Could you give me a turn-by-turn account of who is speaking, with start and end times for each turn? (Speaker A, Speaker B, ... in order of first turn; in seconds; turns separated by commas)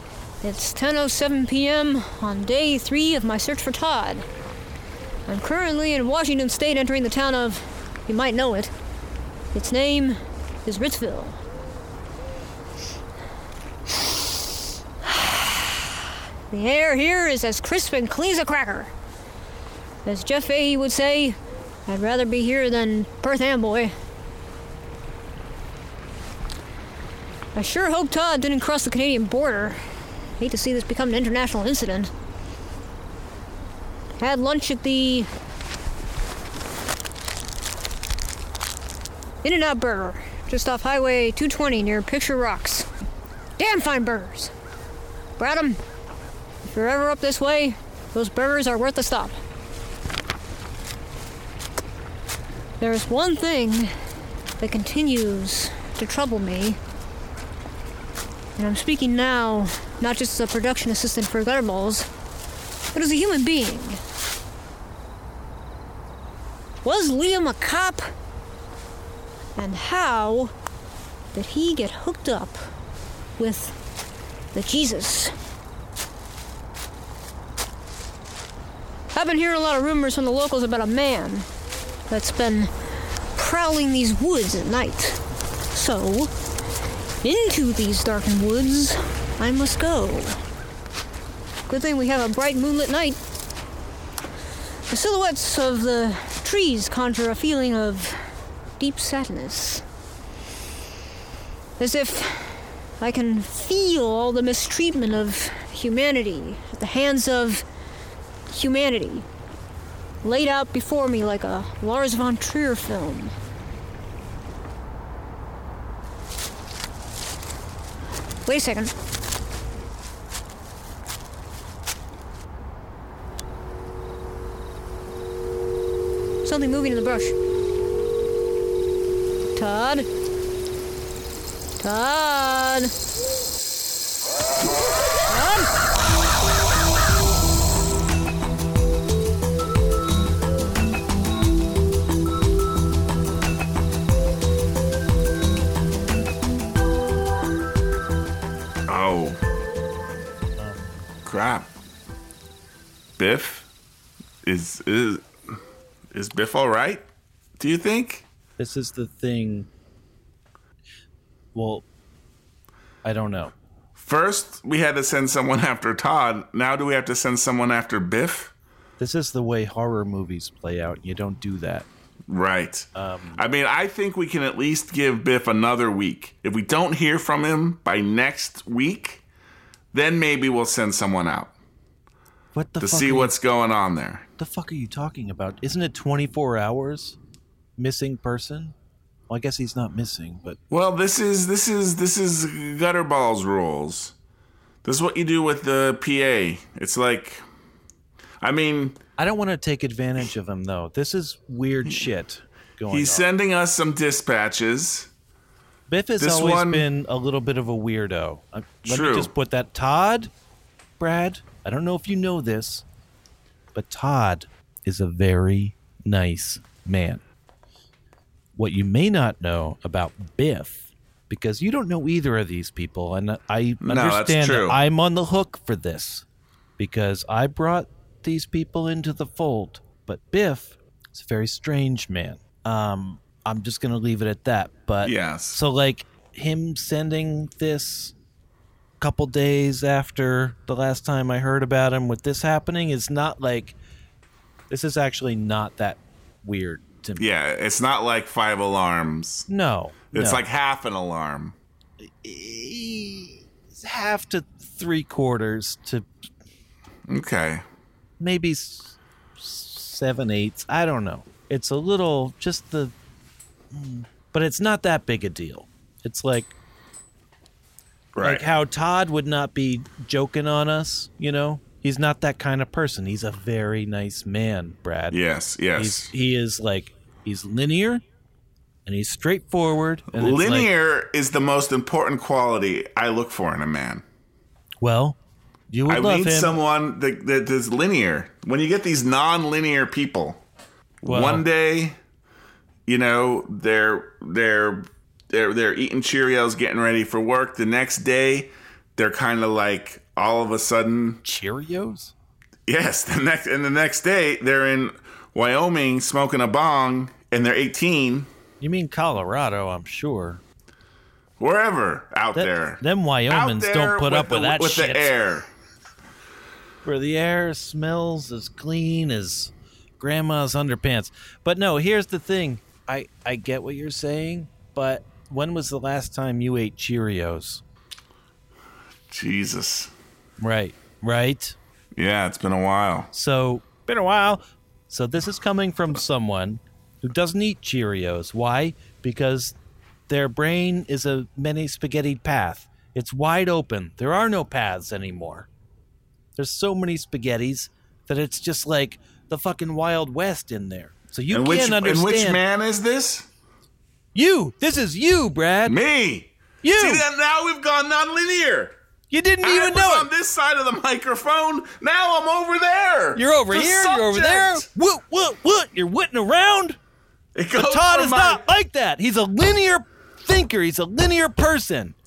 Speaker A: 0.4-4.2, Speaker A: 5.3-8.7, Speaker A: 9.5-11.4, Speaker A: 15.0-15.9, Speaker A: 16.5-18.9, Speaker A: 20.0-23.9, Speaker A: 27.5-29.8, Speaker A: 30.4-32.1, Speaker A: 34.2-35.3, Speaker A: 39.4-42.9, Speaker A: 43.6-44.5, Speaker A: 45.4-45.8, Speaker A: 46.7-49.4, Speaker A: 52.8-54.0, Speaker A: 54.6-56.8, Speaker A: 58.6-62.1, Speaker A: 62.9-64.0, Speaker A: 66.8-68.1, Speaker A: 69.5-70.5, Speaker A: 71.3-72.6, Speaker A: 73.4-73.7, Speaker A: 74.5-75.3, Speaker A: 79.1-81.5, Speaker A: 82.1-82.7, Speaker A: 83.3-85.2, Speaker A: 85.7-86.3, Speaker A: 87.2-90.4, Speaker A: 91.7-93.2, Speaker A: 94.9-99.8, Speaker A: 101.8-107.6, Speaker A: 108.5-109.2, Speaker A: 110.2-113.3, Speaker A: 118.5-118.9, Speaker A: 126.4-127.3, Speaker A: 129.5-130.1, Speaker A: 131.8-132.9, Speaker A: 135.3-135.7, Speaker B: 148.9-149.4, Speaker C: 150.6-150.9, Speaker B: 151.2-151.7, Speaker B: 153.2-153.7, Speaker B: 154.4-155.6, Speaker B: 156.1-157.0, Speaker B: 157.6-158.2, Speaker C: 158.6-159.7, Speaker C: 161.5-161.8, Speaker C: 163.0-163.5, Speaker B: 163.9-168.5, Speaker C: 169.0-171.9, Speaker B: 172.3-179.2, Speaker C: 172.9-173.4, Speaker B: 179.9-181.5, Speaker C: 182.5-183.3, Speaker B: 182.8-184.3, Speaker C: 184.4-187.2, Speaker C: 187.8-188.7, Speaker C: 189.3-190.6, Speaker B: 190.7-194.1, Speaker B: 194.8-197.4, Speaker B: 198.4-199.0, Speaker C: 199.2-203.3, Speaker B: 202.9-205.1, Speaker C: 205.9-210.3, Speaker B: 206.2-206.9, Speaker B: 208.8-209.3, Speaker C: 211.0-212.8, Speaker C: 213.7-217.2, Speaker C: 218.6-226.2, Speaker B: 223.8-224.8, Speaker C: 226.8-238.1, Speaker B: 235.0-235.6, Speaker C: 239.0-243.8, Speaker C: 244.7-247.2, Speaker B: 247.2-249.5, Speaker C: 249.5-250.4, Speaker B: 250.1-251.6, Speaker C: 252.0-256.1, Speaker B: 257.1-257.6, Speaker C: 258.2-262.9, Speaker C: 263.7-266.5, Speaker B: 268.1-268.4, Speaker C: 268.2-275.2, Speaker B: 275.1-276.1, Speaker C: 275.7-278.0, Speaker C: 278.8-280.7, Speaker B: 280.1-284.0, Speaker C: 284.8-285.2, Speaker C: 285.7-286.6, Speaker B: 285.9-290.4, Speaker B: 291.0-292.0, Speaker C: 291.1-291.4, Speaker B: 292.9-301.2, Speaker C: 301.2-302.1, Speaker B: 302.7-308.3, Speaker C: 308.6-310.4, Speaker B: 311.4-315.5, Speaker C: 312.3-315.1, Speaker C: 316.8-327.6, Speaker B: 329.1-329.9, Speaker C: 330.4-331.6, Speaker B: 331.9-333.1, Speaker C: 333.1-339.6, Speaker C: 340.1-345.5, Speaker C: 346.4-352.4, Speaker B: 351.3-353.3, Speaker C: 354.1-355.8, Speaker B: 355.6-358.8, Speaker C: 356.6-357.0, Speaker C: 359.1-360.1, Speaker B: 359.4-364.7, Speaker C: 363.1-366.8, Speaker B: 367.3-368.4, Speaker C: 367.5-371.9